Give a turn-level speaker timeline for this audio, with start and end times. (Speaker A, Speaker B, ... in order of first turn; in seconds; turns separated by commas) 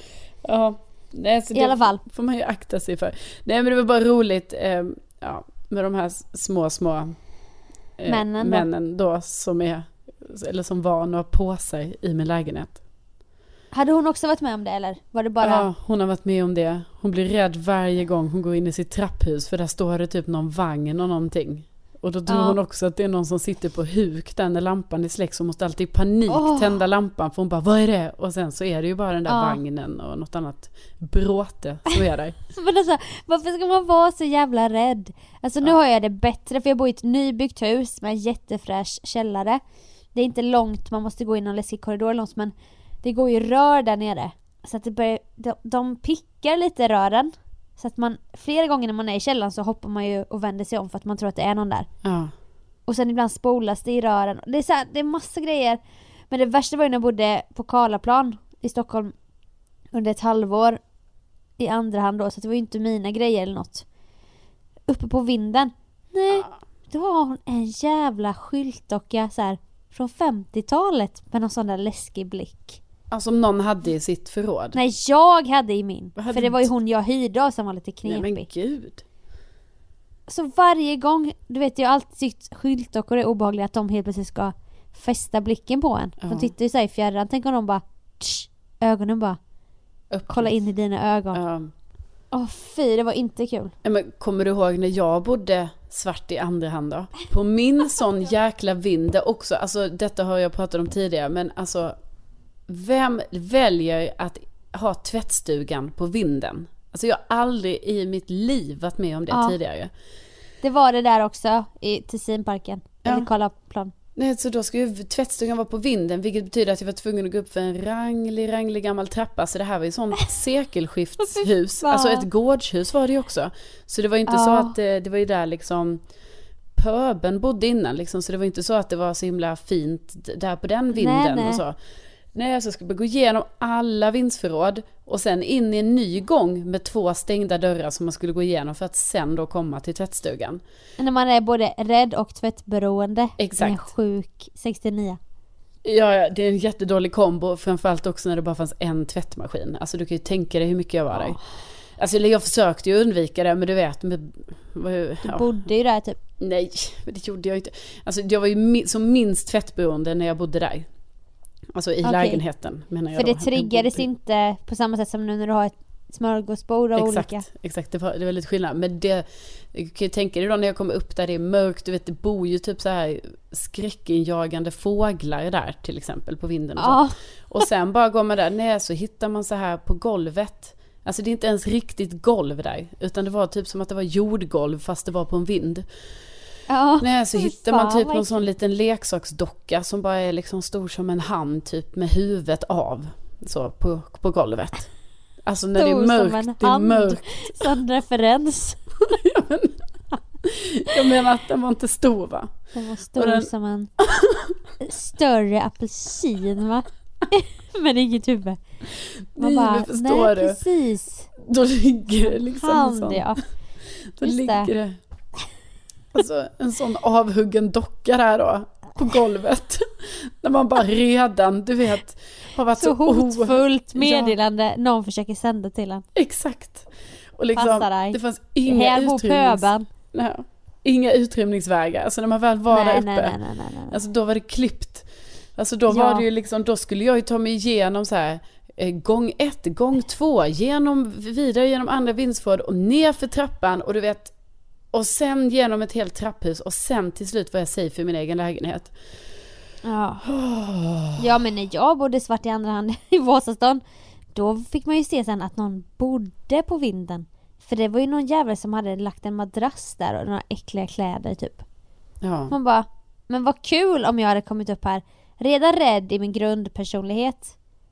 Speaker A: 0.4-7.1, Speaker B: 1.5-2.0, Speaker A: 8.0-12.8, Speaker B: 8.1-8.7, Speaker B: 13.7-15.7, Speaker A: 15.4-32.4, Speaker B: 22.3-22.6, Speaker B: 26.3-26.8, Speaker B: 29.3-29.6, Speaker B: 32.5-39.6, Speaker B: 40.1-51.9, Speaker A: 52.0-52.3, Speaker B: 52.9-59.1, Speaker B: 59.9-60.8, Speaker B: 61.6-63.8, Speaker B: 64.9-72.8, Speaker A: 73.1-74.8, Speaker B: 74.7-78.5, Speaker A: 76.2-76.7, Speaker A: 78.0-79.0, Speaker B: 80.3-89.4, Speaker A: 86.2-86.5, Speaker A: 90.1-90.5, Speaker B: 90.3-91.4, Speaker A: 91.3-91.7, Speaker B: 92.3-93.7, Speaker A: 93.8-101.9, Speaker A: 102.7-109.9, Speaker B: 109.3-109.6, Speaker B: 110.6-113.9, Speaker A: 113.0-113.3, Speaker A: 114.2-126.0, Speaker B: 121.2-122.3, Speaker B: 124.3-124.7, Speaker A: 126.7-131.8, Speaker B: 130.9-131.6, Speaker A: 132.3-140.6, Speaker B: 141.0-145.2, Speaker A: 143.4-143.9, Speaker A: 145.8-151.4, Speaker B: 151.1-151.4, Speaker A: 152.0-155.6, Speaker B: 155.2-156.2, Speaker A: 156.4-160.9, Speaker A: 161.7-164.0, Speaker B: 162.0-162.4, Speaker B: 163.1-167.4, Speaker A: 166.9-185.8, Speaker B: 176.8-177.1, Speaker B: 186.7-188.5, Speaker A: 187.0-194.9, Speaker A: 195.4-197.7, Speaker B: 195.8-198.9, Speaker A: 199.0-199.8, Speaker A: 200.4-202.5, Speaker B: 202.7-203.9, Speaker A: 203.1-203.5, Speaker A: 204.0-204.6, Speaker B: 204.8-208.6, Speaker A: 209.0-210.6, Speaker B: 209.4-211.3, Speaker A: 211.4-213.3, Speaker B: 212.3-213.4, Speaker A: 214.0-215.0, Speaker B: 214.2-214.7, Speaker A: 216.1-224.3, Speaker B: 222.8-226.1, Speaker A: 226.1-244.3, Speaker B: 227.5-229.9, Speaker B: 232.7-234.0, Speaker B: 235.9-236.2, Speaker A: 244.9-248.9, Speaker B: 249.8-250.2, Speaker A: 250.2-251.3, Speaker B: 251.2-253.8, Speaker B: 254.3-261.6, Speaker A: 262.2-262.5, Speaker B: 262.5-267.5